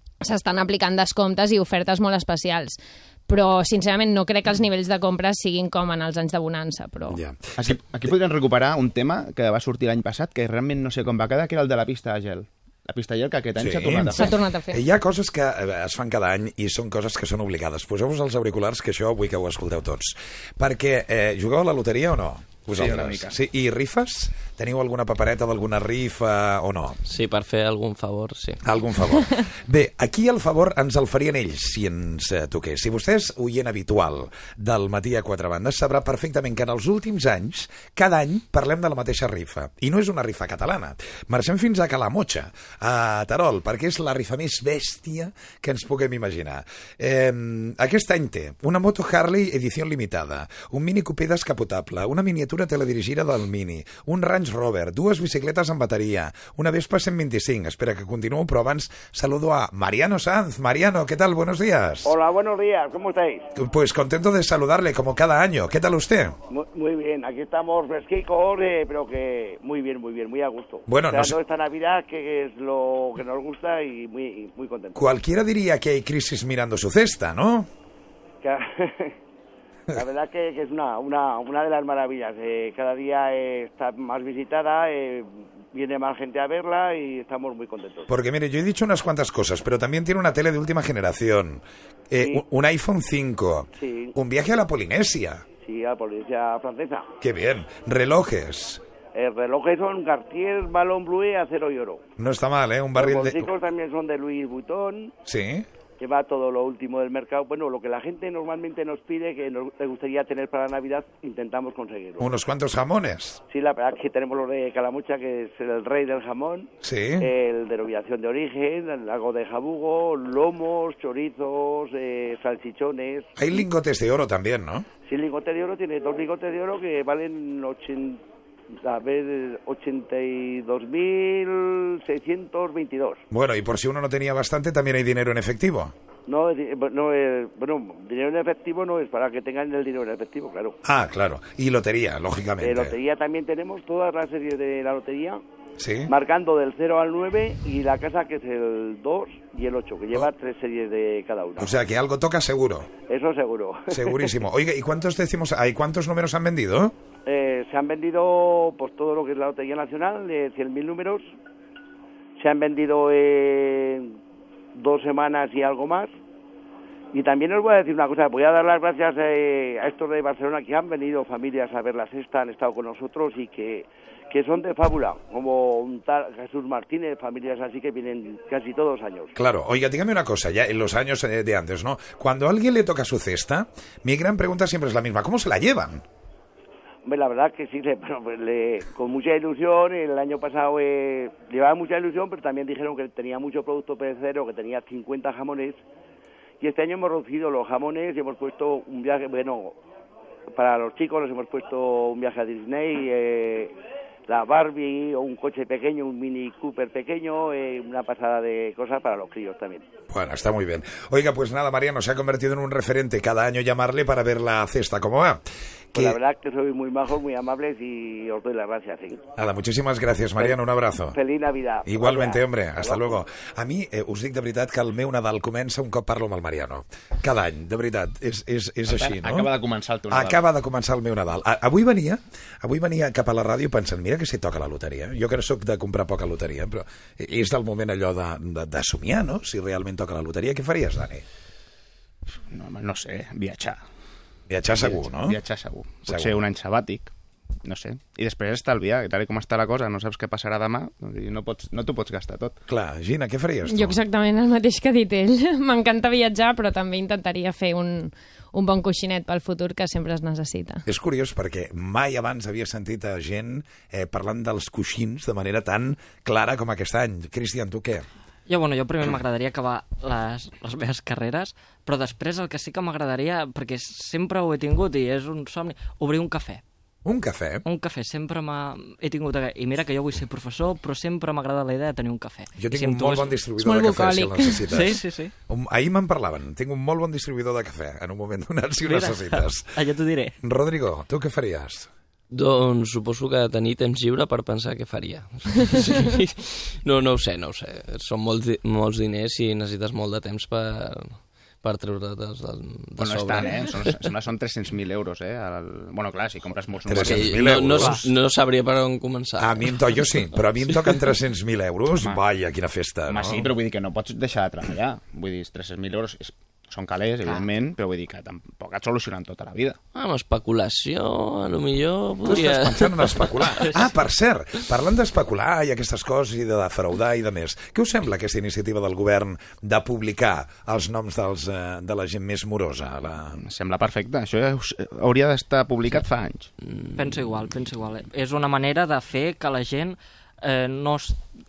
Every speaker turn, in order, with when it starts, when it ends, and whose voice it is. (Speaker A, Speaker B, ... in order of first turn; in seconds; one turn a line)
Speaker A: 0.2-7.2
Speaker B: 7.1-7.8
Speaker C: 7.6-14.3
Speaker B: 13.6-27.0
Speaker A: 14.2-14.8
Speaker C: 22.7-23.4
Speaker D: 27.1-28.6
Speaker B: 28.6-62.1
Speaker E: 62.0-63.5
Speaker B: 63.6-66.4
Speaker E: 66.5-75.0
Speaker B: 70.9-71.4
Speaker B: 75.0-77.7
Speaker E: 78.4-79.2
Speaker E: 79.9-88.1
Speaker B: 88.1-95.5
Speaker E: 93.8-94.2
Speaker E: 95.6-97.1
Speaker B: 97.2-98.8
Speaker E: 99.1-102.0
Speaker B: 102.2-103.5
Speaker E: 103.0-105.1
Speaker B: 105.3-105.7
Speaker E: 106.0-112.3
Speaker B: 112.2-113.4
Speaker E: 113.5-123.3
Speaker B: 116.8-117.3
Speaker B: 123.4-124.9
Speaker E: 125.0-128.2
Speaker E: 128.8-133.2
Speaker B: 133.3-135.9
Speaker E: 136.3-140.8
Speaker B: 140.8-142.9
Speaker E: 142.6-145.4
Speaker B: 145.8-146.1
Speaker E: 146.1-151.8
Speaker B: 151.6-152.9
Speaker E: 153.1-154.4
Speaker B: 153.9-156.9
Speaker E: 157.3-161.2
Speaker E: 162.4-164.2
Speaker E: 164.8-166.1
Speaker E: 167.1-179.3
Speaker B: 179.3-186.1
Speaker E: 187.0-195.8
Speaker E: 196.6-199.8
Speaker E: 200.5-203.8
Speaker E: 204.3-209.9
Speaker B: 210.1-215.4
Speaker B: 215.9-216.2
Speaker E: 215.9-219.2
Speaker B: 219.4-221.2
Speaker E: 220.4-223.2
Speaker B: 221.8-229.5
Speaker C: 228.9-230.4
Speaker B: 230.1-241.2
Speaker C: 242.5-243.8
Speaker B: 244.5-245.4
Speaker C: 244.7-247.1
Speaker B: 246.1-246.4
Speaker C: 247.6-252.6
Speaker B: 252.7-254.0
Speaker A: 253.7-260.8
Speaker B: 260.9-268.1
Speaker F: 268.5-276.6
Speaker B: 277.1-277.6
Speaker F: 277.7-283.4
Speaker B: 282.6-289.7
Speaker A: 283.6-284.7
Speaker F: 284.7-285.3
Speaker F: 288.9-290.4
Speaker B: 290.4-291.9
Speaker D: 292.3-304.0
Speaker C: 303.0-307.9
Speaker B: 306.9-308.1
Speaker D: 306.9-311.0
Speaker B: 309.4-313.5
Speaker C: 311.9-312.2
Speaker C: 313.1-319.8
Speaker D: 319.9-323.8
Speaker B: 322.2-333.4
Speaker C: 333.4-336.5
Speaker F: 336.9-341.2